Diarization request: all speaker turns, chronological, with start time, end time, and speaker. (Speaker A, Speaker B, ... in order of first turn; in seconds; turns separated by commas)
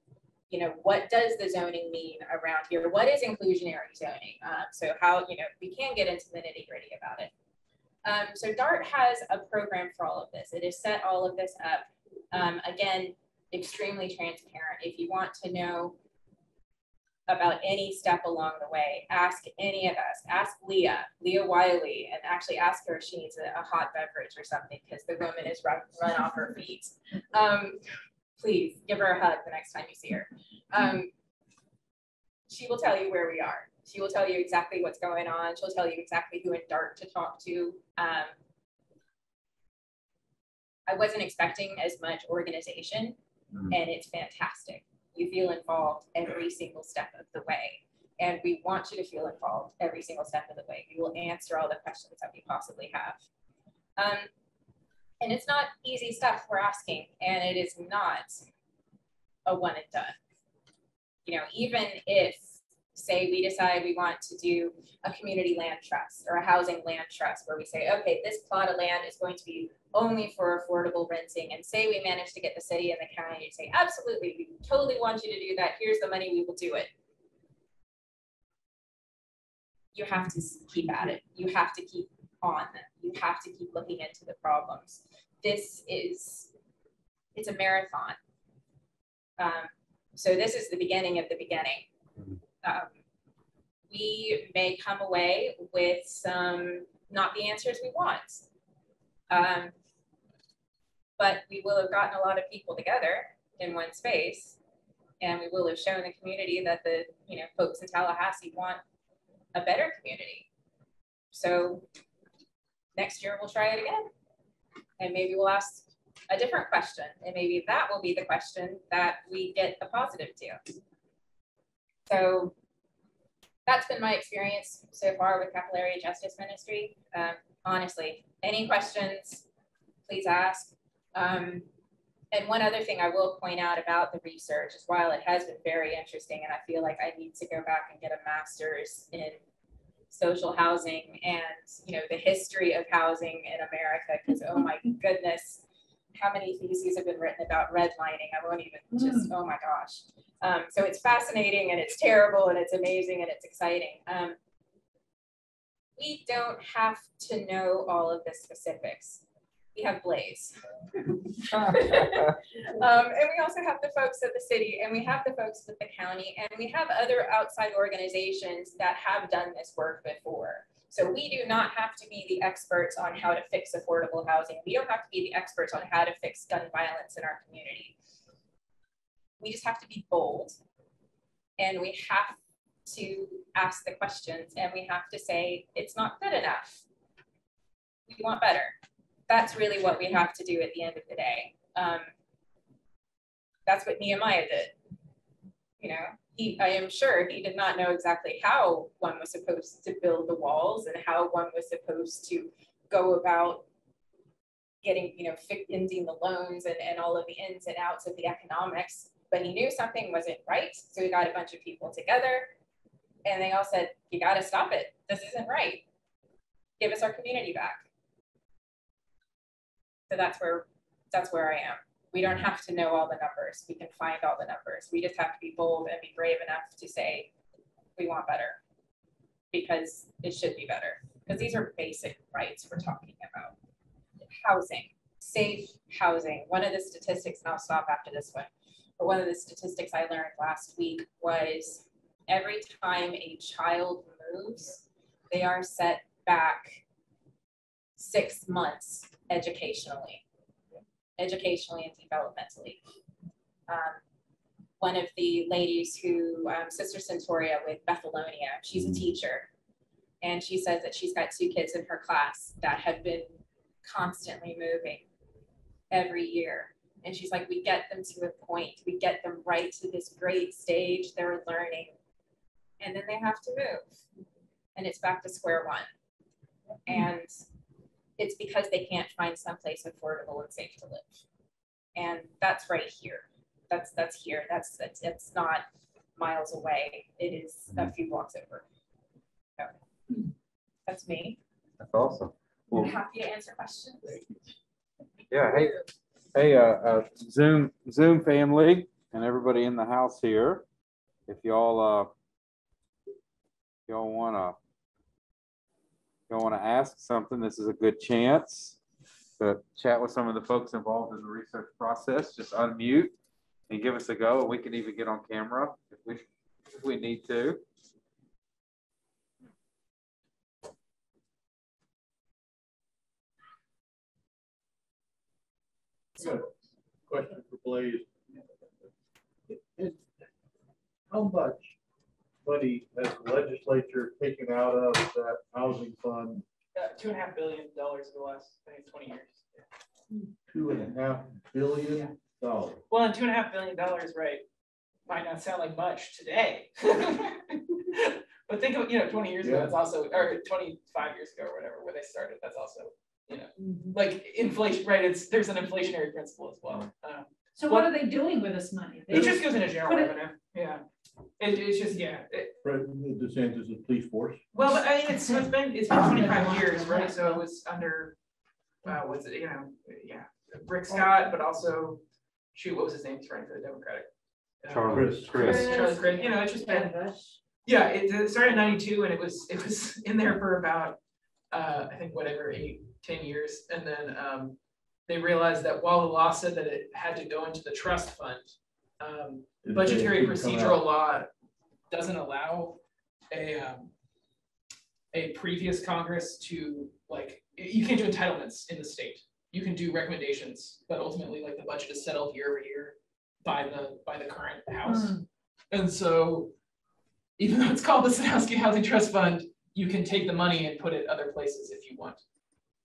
Speaker A: 0.5-7.3, Speaker A: 8.0-15.9, Speaker A: 17.3-27.8, Speaker A: 28.4-31.1, Speaker A: 32.5-38.3, Speaker A: 40.9-43.2, Speaker A: 43.7-53.2, Speaker A: 54.0-54.3, Speaker A: 55.2-58.4, Speaker A: 59.5-60.1, Speaker A: 61.2-76.9, Speaker A: 79.9-86.5, Speaker A: 87.3-88.2, Speaker A: 89.4-91.8, Speaker A: 92.6-92.9, Speaker A: 93.9-98.4, Speaker A: 99.3-99.7, Speaker A: 101.2-104.6, Speaker A: 105.2-108.8, Speaker A: 109.5-110.5, Speaker A: 111.3-111.8, Speaker A: 113.0-114.1, Speaker A: 115.0-120.6, Speaker A: 122.1-122.5, Speaker A: 123.7-129.4, Speaker A: 130.1-131.7, Speaker A: 132.3-139.4, Speaker A: 140.1-145.6, Speaker A: 146.1-154.3, Speaker B: 148.9-149.2, Speaker A: 156.0-159.2, Speaker A: 159.7-177.9, Speaker C: 161.5-162.3, Speaker A: 179.4-180.6, Speaker A: 181.6-186.8, Speaker A: 188.1-188.7, Speaker A: 189.3-192.1, Speaker A: 193.7-194.7, Speaker A: 195.8-203.6, Speaker A: 204.8-212.5, Speaker A: 213.2-215.8, Speaker A: 216.8-217.8, Speaker A: 220.1-227.3, Speaker A: 228.0-228.6, Speaker A: 229.5-233.5, Speaker A: 234.3-246.8, Speaker A: 248.0-250.2, Speaker A: 251.2-252.8, Speaker A: 253.7-254.0, Speaker A: 254.8-259.5, Speaker A: 260.2-263.3, Speaker A: 263.8-265.0, Speaker A: 265.9-271.9, Speaker A: 272.8-273.8, Speaker A: 274.8-275.9, Speaker A: 276.9-277.4, Speaker A: 278.2-281.1, Speaker A: 281.9-285.6, Speaker A: 286.2-288.6, Speaker A: 290.9-291.4, Speaker C: 291.8-292.9, Speaker A: 292.7-294.2, Speaker C: 295.3-295.7, Speaker A: 295.5-295.8, Speaker C: 296.3-300.6, Speaker C: 301.3-302.1, Speaker C: 303.9-304.5, Speaker C: 306.3-308.8, Speaker C: 309.4-313.1, Speaker C: 313.7-316.2, Speaker C: 316.7-317.6, Speaker D: 326.2-326.5, Speaker D: 327.1-328.4, Speaker D: 329.5-330.0, Speaker D: 331.1-331.7, Speaker D: 332.4-336.4, Speaker E: 336.7-339.4, Speaker D: 340.5-342.8, Speaker E: 342.9-344.4, Speaker E: 345.1-357.9, Speaker D: 349.4-349.7, Speaker B: 353.6-353.9, Speaker B: 357.6-360.1, Speaker E: 359.1-360.8, Speaker D: 359.1-359.4, Speaker E: 361.4-362.6, Speaker D: 362.6-364.4, Speaker E: 364.5-368.1, Speaker B: 366.0-367.4, Speaker E: 368.8-372.0, Speaker E: 372.5-374.1, Speaker E: 374.6-377.0, Speaker C: 374.7-375.7, Speaker D: 374.9-375.5, Speaker B: 375.4-377.4, Speaker E: 377.6-381.0, Speaker E: 381.5-384.6, Speaker E: 385.1-391.3, Speaker D: 389.6-390.8, Speaker E: 391.9-392.8, Speaker E: 393.3-393.9, Speaker E: 395.1-405.2, Speaker B: 404.9-405.2, Speaker E: 405.7-406.5, Speaker E: 407.4-412.2